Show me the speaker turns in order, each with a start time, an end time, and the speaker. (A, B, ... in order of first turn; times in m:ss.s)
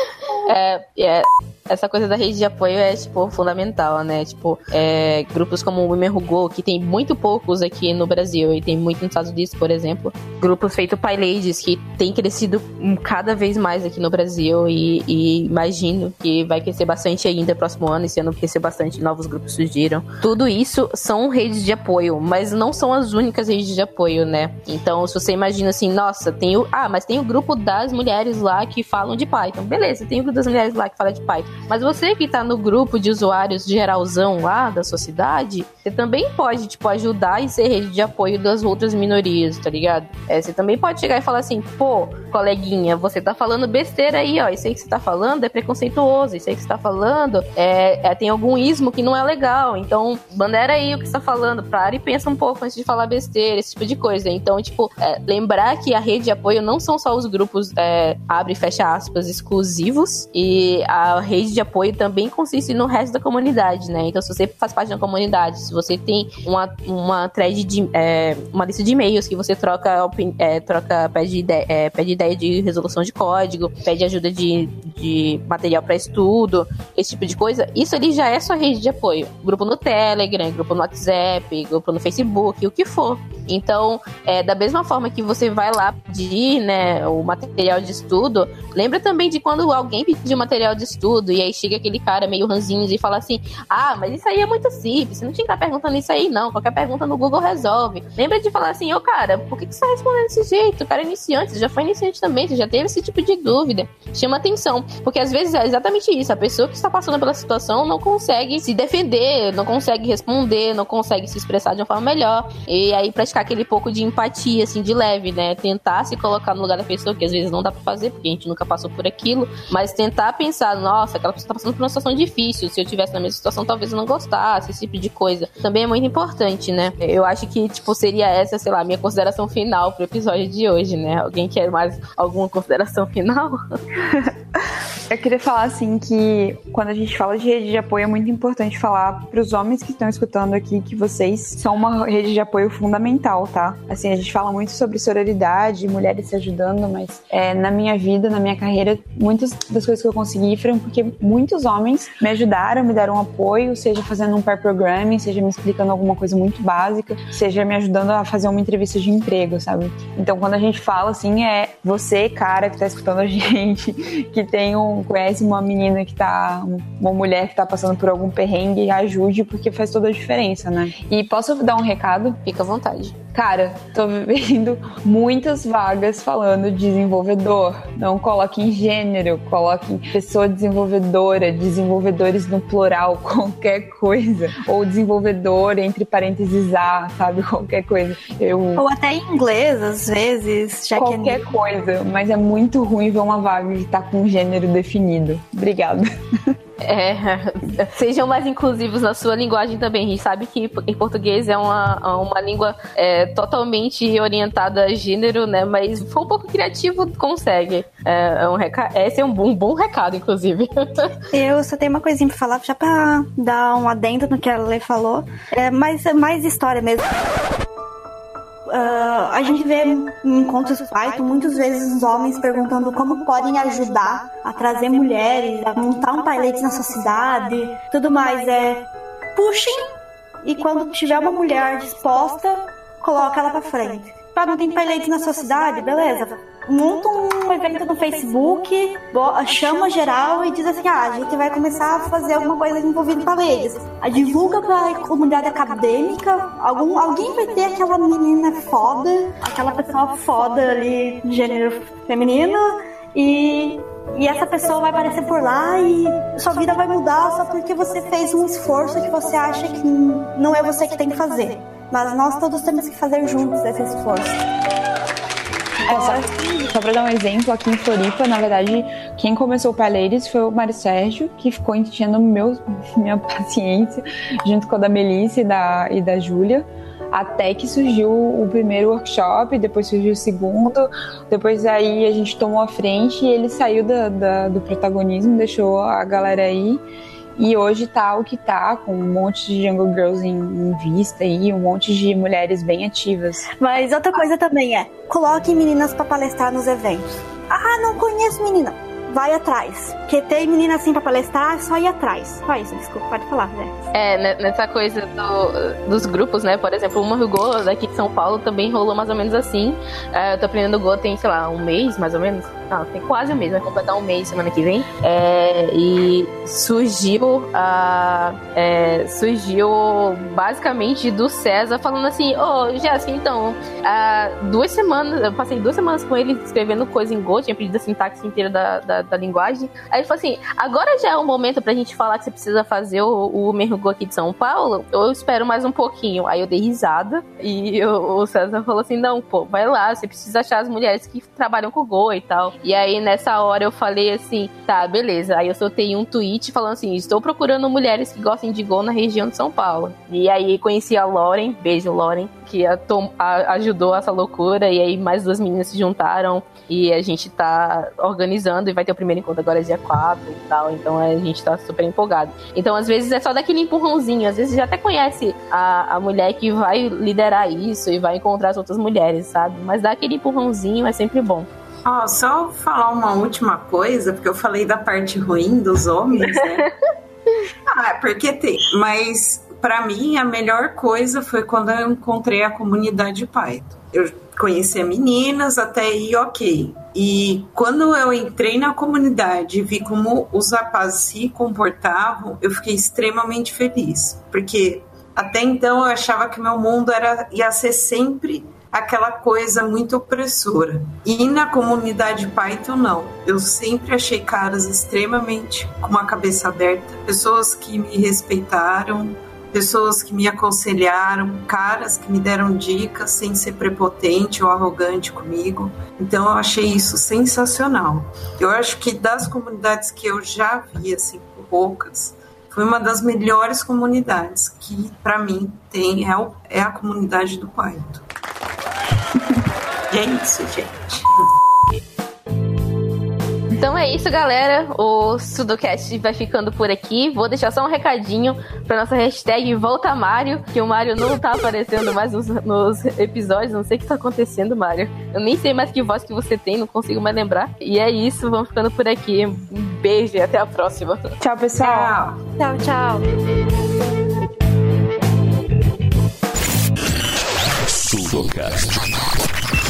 0:00.4-2:13.6 A
2:14.1-2:14.3 B
2:15.1-2:52.4 B
2:52.4-2:53.2 A
2:53.3-3:08.8 B
3:08.8-3:11.4 C
3:10.9-3:16.5 B
3:16.8-3:31.1 A
3:31.3-3:37.1 C
3:38.7-4:24.4 C
4:25.8-4:46.8 B
4:25.9-4:26.6 C
4:47.4-4:53.5 B
4:53.6-5:03.7 C
5:03.9-6:11.5 A
6:11.8-6:16.7 D
6:17.7-7:08.0 D
7:09.9-7:11.2 D
7:13.5-7:31.1 A
7:31.2-7:32.0 B
7:31.6-7:32.2 D
7:32.4-7:33.0 C
7:36.8-7:39.4 E